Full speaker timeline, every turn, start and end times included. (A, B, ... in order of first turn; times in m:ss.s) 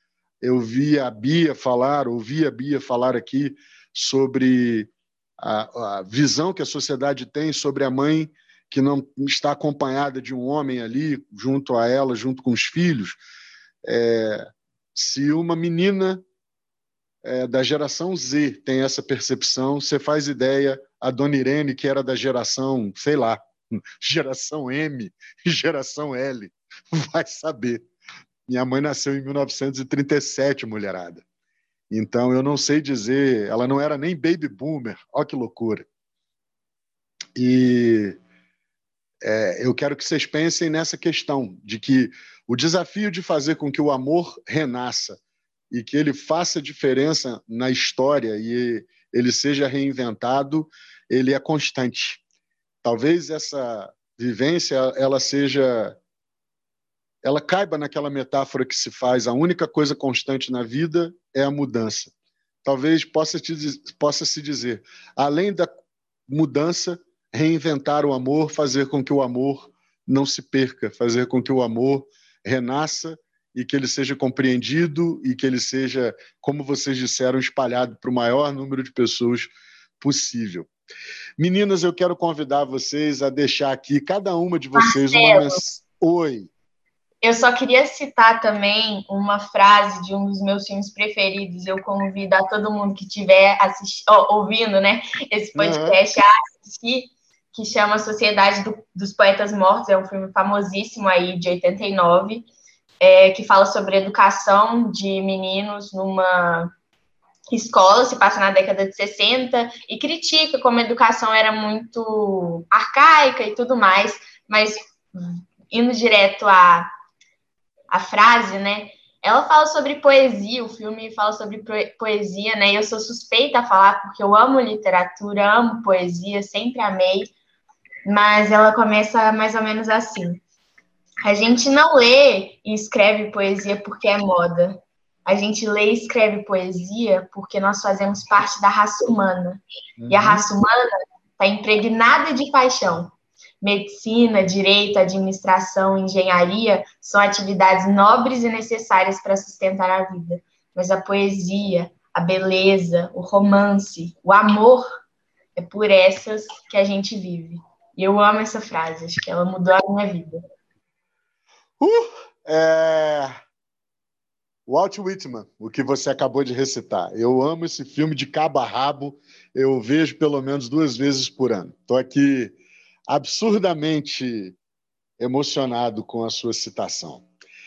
0:00.4-0:13.2 A
0:13.8-0:16.2 A
0:17.2-0:23.4 A
0:24.0-0:27.9 A
0:28.5-0:31.2 A
0:31.9-0:35.8 A
0:37.4-0:38.2 A
0:39.2-0:45.2 A
0:45.7-0:52.2 A
0:52.8-0:56.0 A
0:57.2-1:02.1 A
1:02.6-1:05.7 A
1:06.3-1:20.7 A
1:21.4-1:26.5 A
1:24.8-1:25.6 B
1:27.2-1:42.5 B
1:35.6-1:36.0 A
1:43.0-1:46.7 B
1:47.5-1:56.9 B
1:57.9-2:07.3 B
2:08.1-2:10.4 B
2:11.2-2:34.9 B
2:20.0-2:20.4 A
2:35.6-2:40.4 B
2:41.8-2:43.3 A
2:44.7-2:52.6 A
2:53.1-2:54.6 A
2:55.2-2:57.2 A